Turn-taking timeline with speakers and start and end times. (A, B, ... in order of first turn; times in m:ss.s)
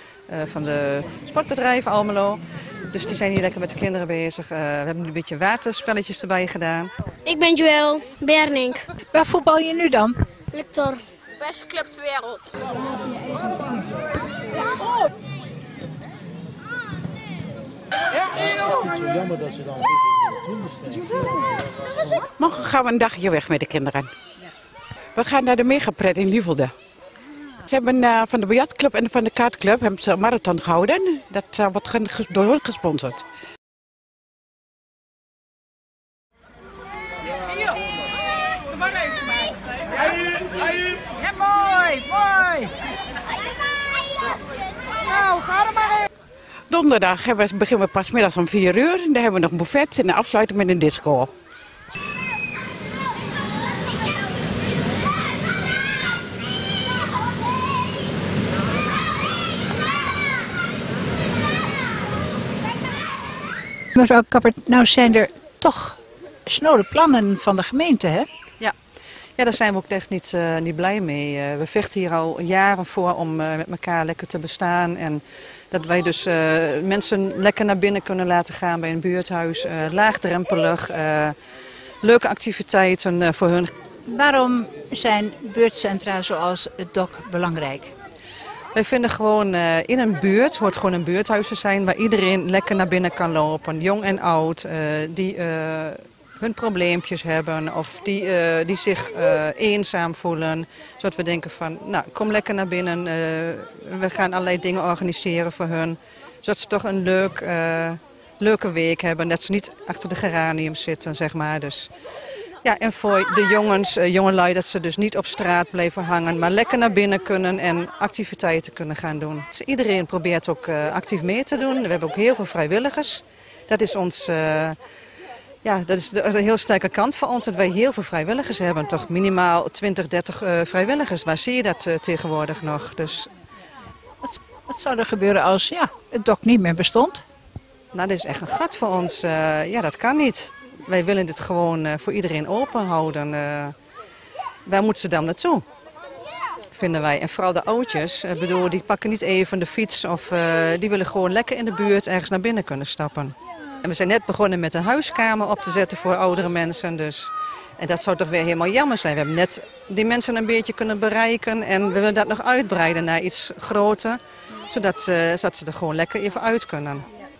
0:00.3-0:02.4 A
0:02.9-0:06.9 A
0:07.2-0:08.8 B
0:09.1-0:10.2 C
0:10.5-0:12.5 B
0:22.4-0:24.1 D
0:25.2-0:26.7 D
0:27.6-0:33.2 D
0:41.4-0:42.6 C
0:46.7-0:51.3 D
1:03.9-1:08.3 C
1:09.4-1:21.4 A
1:22.0-1:23.7 A
1:24.0-1:27.9 C
1:28.7-1:51.9 A
1:52.6-2:04.8 A
2:05.6-2:13.3 A
2:14.2-2:17.2 C
2:17.9-2:23.7 A
2:24.6-2:25.6 A
2:26.7-2:47.0 A